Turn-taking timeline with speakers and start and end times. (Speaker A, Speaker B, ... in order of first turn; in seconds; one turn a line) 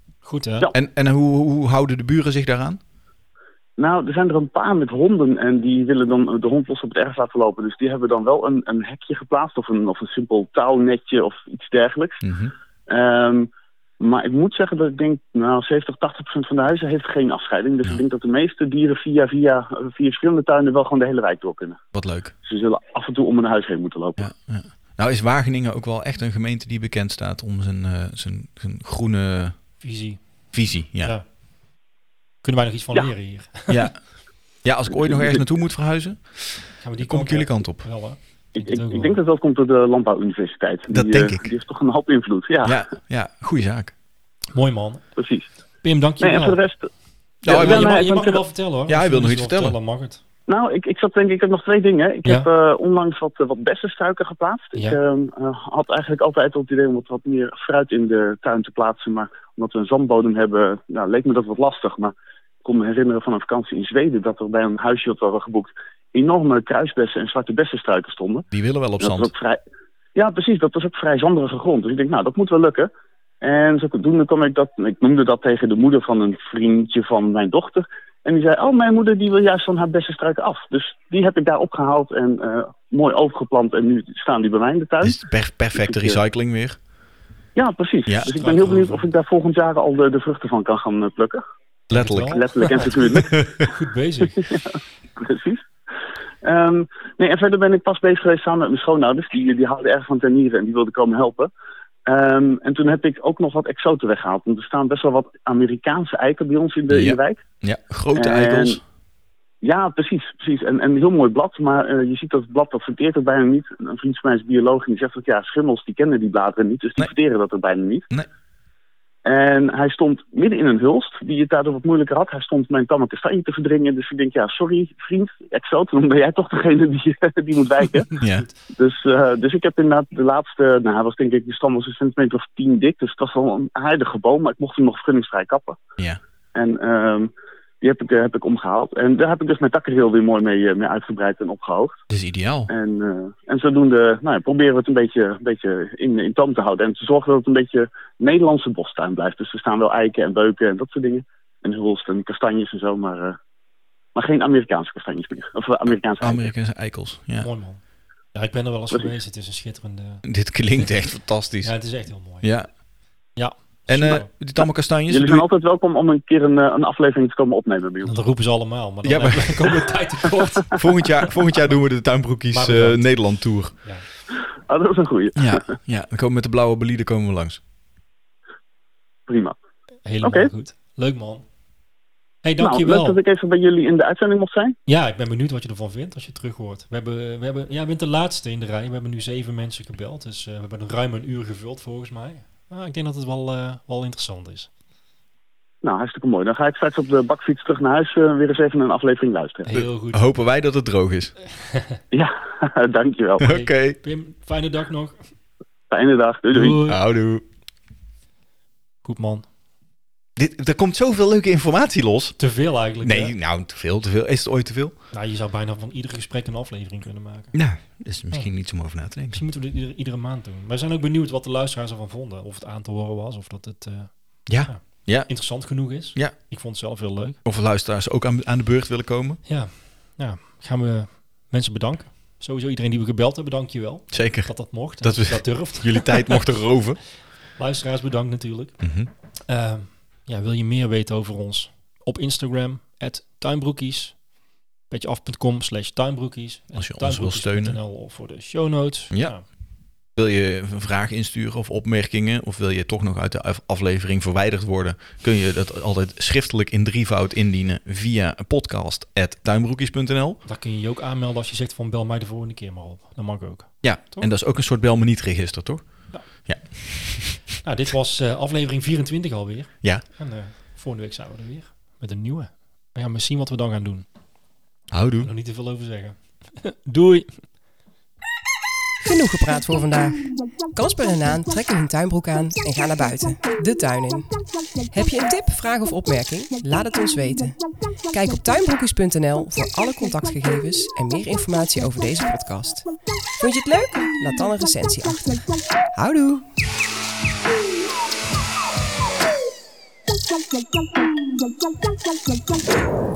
Speaker A: 0.2-0.7
Speaker B: 0.7-2.8
Speaker C: 3.8-12.2
Speaker B: 12.2-12.5
Speaker C: 12.9-21.8
Speaker B: 21.9-22.3
Speaker C: 22.4-24.3
Speaker B: 24.2-29.6
Speaker A: 29.8-31.3
Speaker B: 30.5-31.2
Speaker A: 32.4-33.8
Speaker B: 33.7-34.0
Speaker B: 34.6-37.9
Speaker C: 34.9-35.6
Speaker A: 36.8-39.2
Speaker C: 38.5-42.8
Speaker B: 40.9-41.5
Speaker B: 42.6-43.9
Speaker A: 44.5-45.1
Speaker C: 45.2-45.5
Speaker A: 45.8-46.6
Speaker C: 46.2-46.9
Speaker B: 47.4-48.1
Speaker C: 47.4-48.5
Speaker A: 47.5-50.2
Speaker B: 48.9-49.8
Speaker C: 50.5-68.5
Speaker A: 54.7-55.0
Speaker B: 68.5-69.3
Speaker C: 69.0-69.6
Speaker C: 70.1-72.9
Speaker C: 73.4-85.2
Speaker B: 85.0-86.8
Speaker C: 85.7-86.2
Speaker C: 87.5-91.4
Speaker B: 88.0-88.4
Speaker A: 88.2-89.1
Speaker B: 91.9-93.5
Speaker A: 91.9-94.4
Speaker C: 92.3-93.3
Speaker C: 94.3-95.7
Speaker C: 96.4-101.5
Speaker C: 102.0-107.4
Speaker B: 106.9-108.8
Speaker C: 108.1-108.8
Speaker C: 109.6-118.1
Speaker C: 119.2-128.1
Speaker B: 128.1-128.4
Speaker A: 128.2-128.5
Speaker C: 128.8-135.8
Speaker C: 136.5-142.0
Speaker B: 142.1-142.7
Speaker C: 142.7-153.4
Speaker C: 154.1-156.5
Speaker B: 156.2-157.5
Speaker A: 157.4-157.8
Speaker A: 158.3-160.2
Speaker B: 160.2-162.7
Speaker A: 161.6-162.6
Speaker A: 163.4-164.3
Speaker B: 163.9-165.4
Speaker C: 165.1-168.2
Speaker A: 168.0-170.9
Speaker B: 169.0-169.8
Speaker B: 170.7-173.7
Speaker A: 172.5-174.1
Speaker C: 174.7-175.6
Speaker B: 175.4-177.6
Speaker C: 179.3-179.6
Speaker A: 180.1-181.4
Speaker C: 180.2-180.5
Speaker A: 182.4-183.2
Speaker C: 182.6-184.7
Speaker A: 184.9-194.7
Speaker C: 195.8-199.8
Speaker A: 199.6-200.3
Speaker B: 199.7-201.4
Speaker C: 202.1-203.5
Speaker B: 203.4-204.0
Speaker A: 203.4-205.2
Speaker C: 205.9-206.8
Speaker A: 206.5-207.0
Speaker B: 206.8-207.4
Speaker A: 209.0-209.5
Speaker B: 210.4-212.4
Speaker A: 212.4-213.3
Speaker B: 213.0-215.0
Speaker A: 215.1-217.5
Speaker B: 217.5-219.4
Speaker A: 219.3-227.4
Speaker B: 224.5-226.4
Speaker B: 227.4-229.4
Speaker A: 229.4-236.4
Speaker B: 234.1-237.0
Speaker A: 237.6-238.8
Speaker B: 238.8-239.1
Speaker A: 239.5-244.2
Speaker A: 244.9-249.4
Speaker B: 246.7-247.8
Speaker B: 249.1-249.4
Speaker B: 250.1-260.4
Speaker A: 260.4-264.3
Speaker B: 263.8-267.4
Speaker A: 267.6-274.1
Speaker B: 274.9-275.3
Speaker A: 275.2-277.4
Speaker D: 279.0-296.5